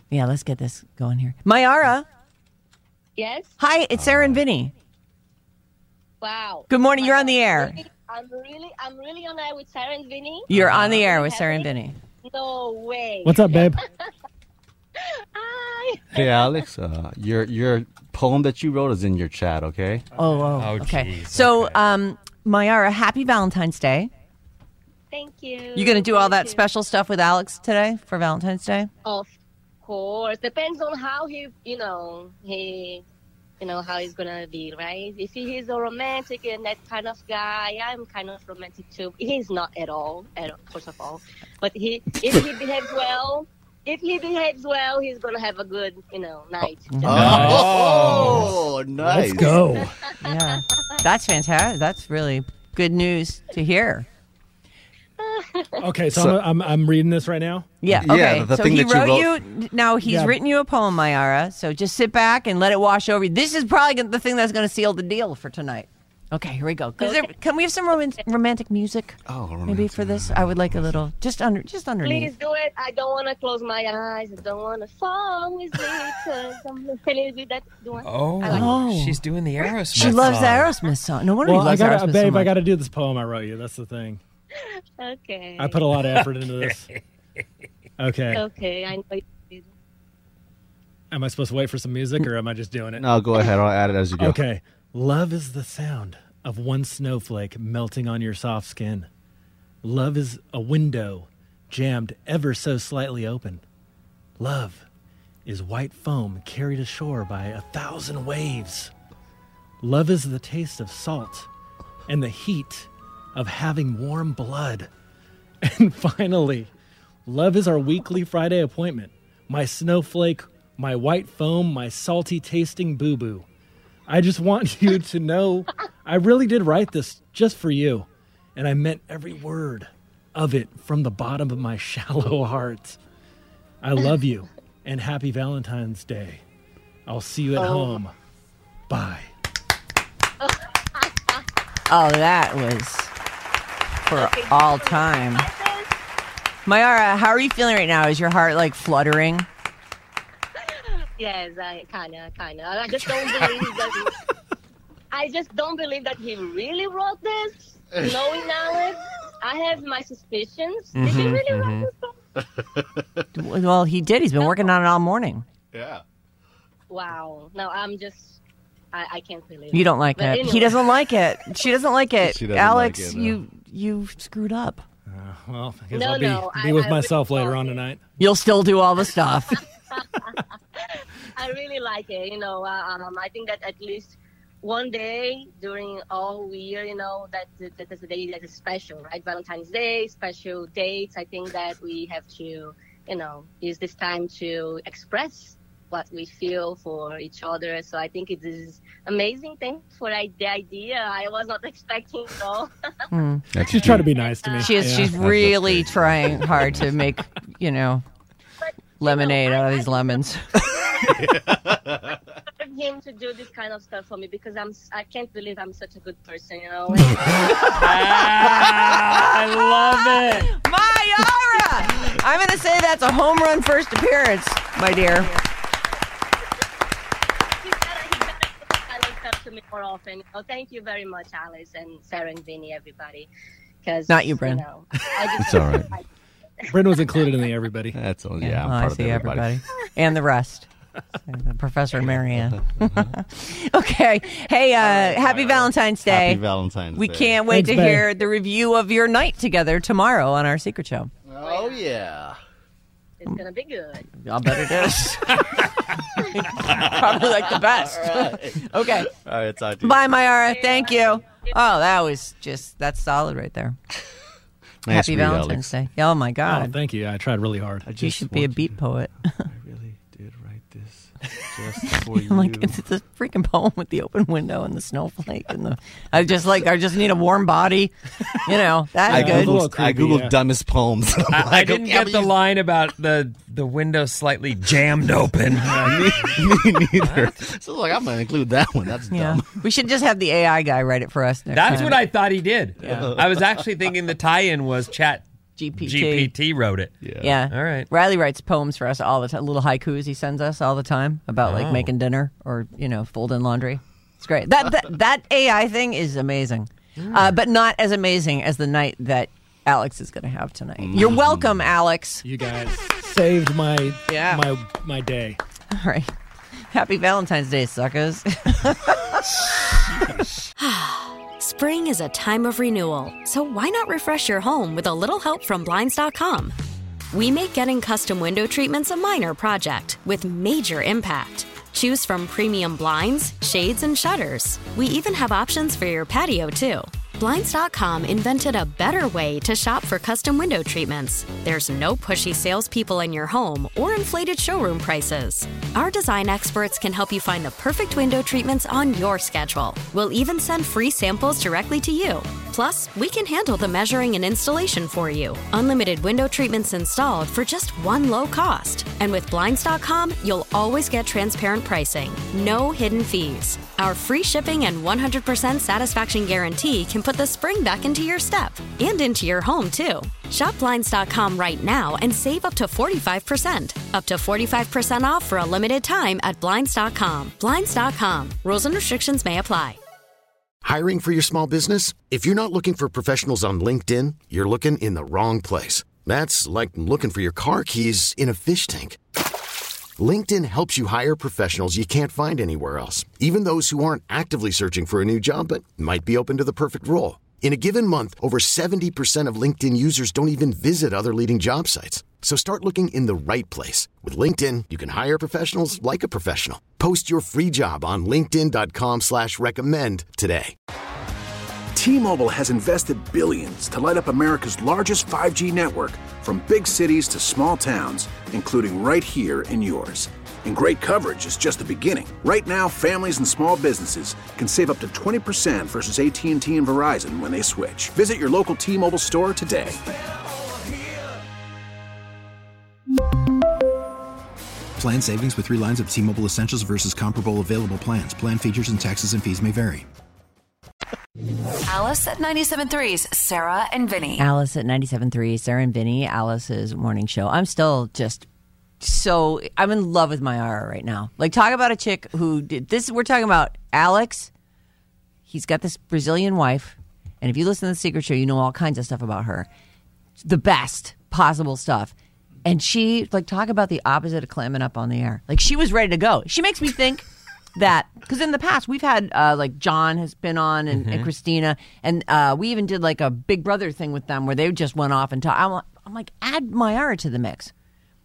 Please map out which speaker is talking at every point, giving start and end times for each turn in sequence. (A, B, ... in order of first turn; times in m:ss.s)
0:00.1-0:02.0 A
0:03.2-0:03.5 B
0:03.6-0:04.7 A
0:03.9-0:04.4 C
0:06.2-0:11.7 B
0:06.7-0:07.8 A
0:10.5-0:11.9 A
0:12.2-0:14.1 B
0:13.2-0:13.8 D
0:15.0-0:16.5 B
0:16.1-0:20.0 C
0:20.2-0:24.1 A
0:20.6-0:21.8 E
0:25.1-0:26.6 B
0:25.7-0:28.9 A
0:29.0-0:29.3 B
0:29.8-0:33.0 B
0:33.6-0:47.8 B
0:46.9-0:47.5 A
0:47.0-0:49.6 C
0:47.1-0:48.5 E
0:49.0-0:50.0 D
0:50.2-0:54.0 A
0:55.2-0:55.8 B
0:55.8-0:57.7 D
0:56.1-0:56.4 C
0:57.8-1:12.3 A
0:57.9-0:59.4 C
1:00.0-1:00.4 D
1:07.0-1:07.3 B
1:09.2-1:11.0 C
1:12.0-1:18.8 B
1:18.0-1:20.7 E
1:18.4-1:19.2 A
1:19.9-1:22.5 A
1:21.4-1:24.2 D
1:24.5-1:25.9 B
1:25.6-1:26.9 D
1:28.0-1:28.4 D
1:28.3-1:29.7 B
1:31.1-1:33.0 D
1:33.0-1:34.4 C
1:34.2-1:39.1 D
1:39.8-1:43.6 D
1:44.4-1:44.8 D
1:45.4-1:48.9 D
1:49.8-1:51.5 D
1:52.1-1:54.9 D
1:55.6-1:56.7 D
1:57.2-2:03.4 D
2:04.1-2:13.0 D
2:13.8-2:16.4 D
2:17.1-2:18.1 D
2:18.9-2:19.3 D
2:20.4-2:21.4 B
2:21.9-2:23.1 A
2:24.0-2:25.4 A
2:24.1-2:25.9 B
2:26.6-2:29.5 A
2:30.6-2:34.2 B
2:35.1-2:42.1 B
2:40.9-2:41.9 E
2:42.6-2:43.2 C
2:43.3-2:45.4 A
2:45.7-2:46.0 C
2:46.9-2:48.4 B
2:48.9-2:51.0 B
2:49.7-2:54.8 A
2:52.2-2:53.4 C
2:55.1-2:58.0 D
2:55.9-2:57.8 B
2:58.2-2:59.6 A
2:59.8-3:22.7 B
3:23.1-3:23.4 A
3:23.5-3:24.1 C
3:23.6-3:25.2 D
3:23.9-3:24.9 B
3:24.6-3:28.0 A
3:25.0-3:27.1 C
3:28.6-3:30.2 B
3:29.0-3:31.0 A
3:31.0-3:32.2 C
3:32.6-3:37.8 B
3:37.7-3:40.5 E
3:40.2-3:45.3 A
3:47.6-3:53.3 B
3:53.8-3:56.0 B
3:54.1-3:54.6 A
3:55.4-3:55.9 C
3:56.7-3:58.0 D
3:57.9-3:59.6 C
3:58.4-4:00.7 A
4:01.2-4:06.4 A
4:02.8-4:03.2 C
4:04.8-4:07.4 C
4:06.9-4:11.1 A
4:07.5-4:08.1 D
4:11.3-4:12.4 C
4:11.4-4:11.9 B
4:13.2-4:14.1 B
4:14.1-4:15.4 A
4:16.2-4:19.1 A
4:16.5-4:20.2 C
4:19.8-4:23.8 A
4:20.6-4:21.1 B
4:24.8-4:25.7 C
4:24.9-4:26.8 A
4:26.4-4:27.9 D
4:27.8-4:28.8 C
4:28.0-4:29.5 A
4:29.5-4:32.8 C
4:31.9-4:39.6 A
4:39.0-4:40.4 D
4:39.1-4:42.4 C
4:41.3-4:47.4 E
4:45.6-4:49.6 C
4:49.1-4:52.0 A
4:51.5-4:55.2 E
4:52.8-4:53.6 C
4:55.6-4:56.3 A
4:55.8-4:57.0 E
4:57.0-4:57.4 C
4:57.2-5:12.2 A
4:57.5-4:57.9 E
5:01.4-5:01.9 E
5:07.0-5:07.3 E
5:10.8-5:11.5 C
5:12.2-5:15.4 D
5:14.1-5:14.4 A
5:15.7-5:16.1 A
5:16.7-5:20.0 A
5:20.6-5:26.5 F
5:27.1-6:19.8 F
6:20.6-6:29.0 G
6:30.0-6:50.5 G
6:51.7-7:09.8 H
7:14.8-7:19.8 I
7:21.6-7:24.2 J
7:24.2-7:28.3 A
7:28.8-7:34.3 A
7:35.3-7:39.5 A
7:40.2-7:41.9 A
7:42.4-7:57.5 A
7:50.7-7:51.1 E